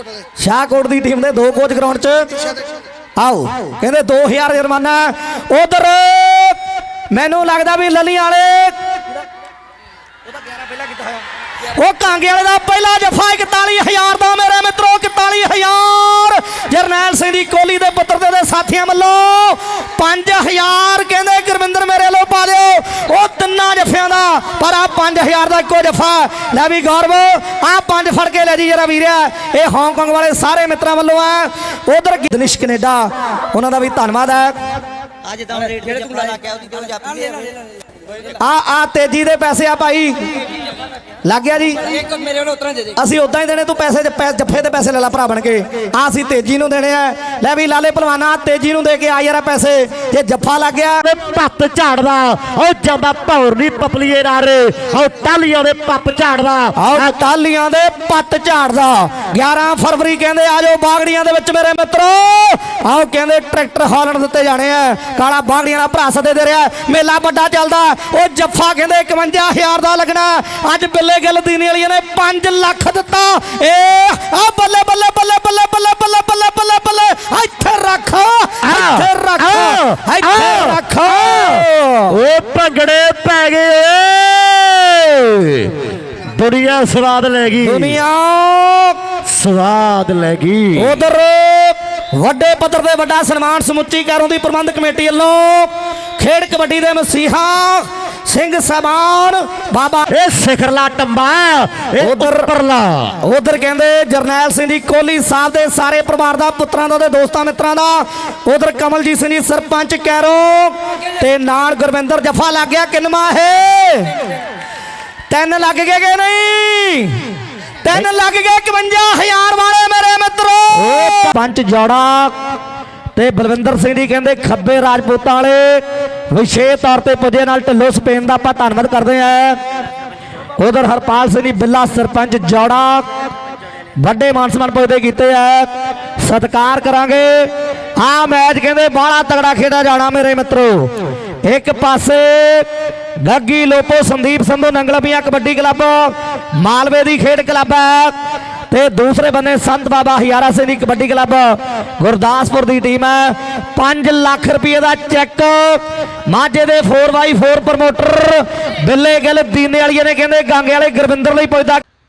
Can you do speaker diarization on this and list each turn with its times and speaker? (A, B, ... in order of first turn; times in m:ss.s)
0:00.4-0:02.5 A
0:03.2-0:06.6 A
0:07.1-0:08.7 A
0:11.7-0:34.6 A
0:35.4-0:37.5 B
0:38.4-0:40.2 A
0:41.2-0:41.9 A
0:42.2-0:42.7 B
0:42.9-0:51.0 A
0:51.0-0:57.1 C
0:56.7-1:22.1 A
1:18.6-1:25.7 C
1:26.3-1:28.0 C
1:27.6-1:29.0 A
1:29.3-1:31.0 C
1:30.7-1:40.1 A
1:40.1-1:43.1 C
1:42.0-1:42.5 A
1:43.2-1:54.1 A
1:55.3-1:57.2 A
1:57.8-2:02.3 A
2:00.7-2:01.3 C
2:03.2-2:09.6 A
2:10.6-2:13.1 A
2:14.0-2:20.9 A
2:21.4-2:22.7 A
2:23.2-2:28.1 A
2:28.7-2:41.8 A